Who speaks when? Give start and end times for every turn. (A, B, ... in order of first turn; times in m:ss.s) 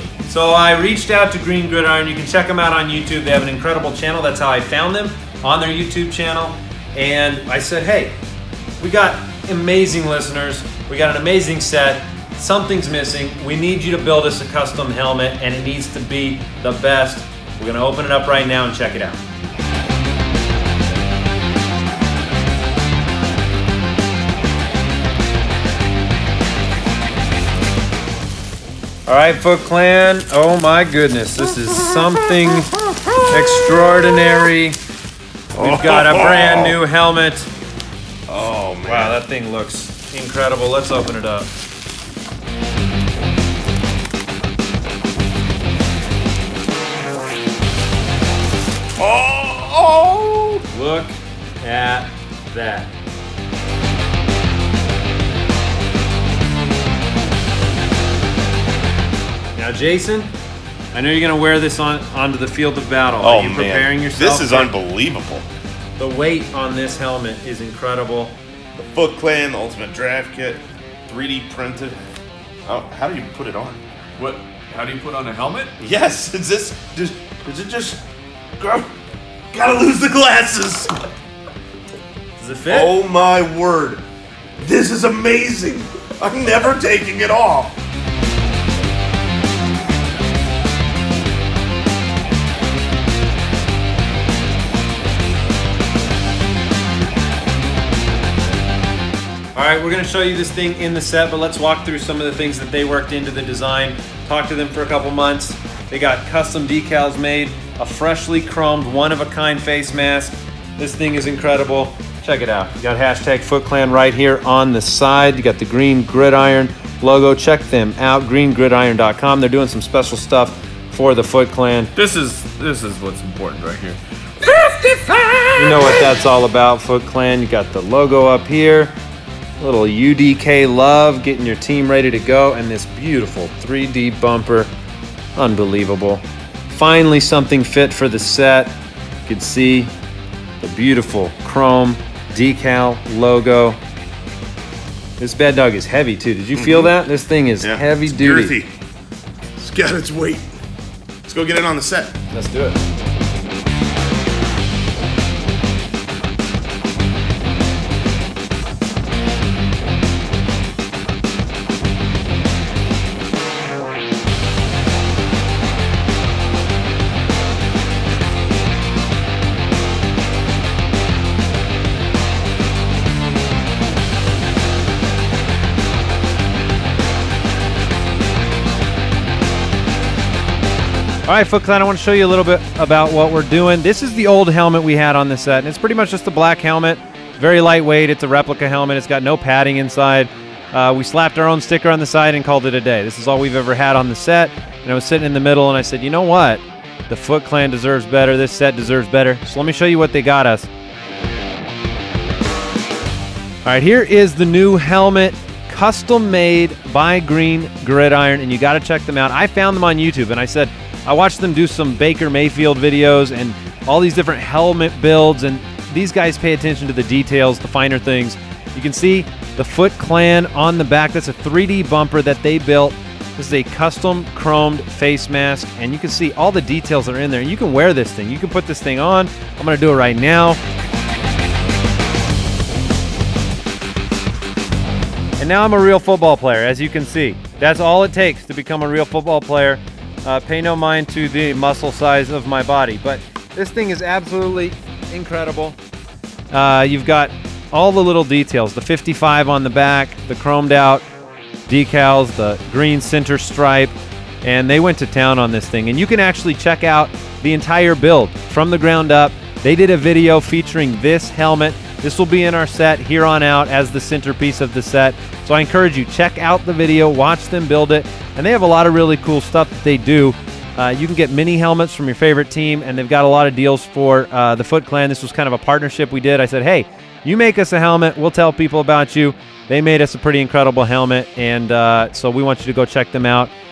0:00.2-0:08.1 A
0:08.8-0:19.2 A
0:29.0-0:34.8 A
0:35.5-0:36.8 B
0:35.6-0:37.5 A
0:38.3-0:39.2 B
0:38.8-0:41.5 A
0:49.0-0:50.6 B
0:50.7-0:52.9 A
0:59.5-1:00.3 A
1:00.9-1:04.7 A
1:03.2-1:05.4 B
1:06.0-1:08.3 A
1:08.8-1:12.0 B
1:12.6-1:13.8 B
1:14.2-1:15.7 C
1:15.8-1:18.0 B
1:18.6-1:18.9 B
1:19.5-1:20.9 B
1:22.4-1:22.9 A
1:22.7-1:24.0 B
1:24.6-1:27.7 B
1:39.5-2:01.9 A
2:02.0-2:06.0 C
2:05.6-2:08.9 A
2:09.6-2:14.7 A
2:15.3-2:18.7 A
2:19.2-2:19.9 A
2:20.6-2:23.8 A
2:25.2-2:28.6 A
2:26.5-2:26.9 B
2:27.6-2:28.7 B
2:29.6-2:30.5 B
2:31.2-2:32.1 B
2:32.3-2:32.8 A
3:01.2-3:20.7 A
3:23.6-3:50.6 A
3:55.4-4:05.8 A
4:06.5-4:11.0 A
4:11.7-4:43.5 A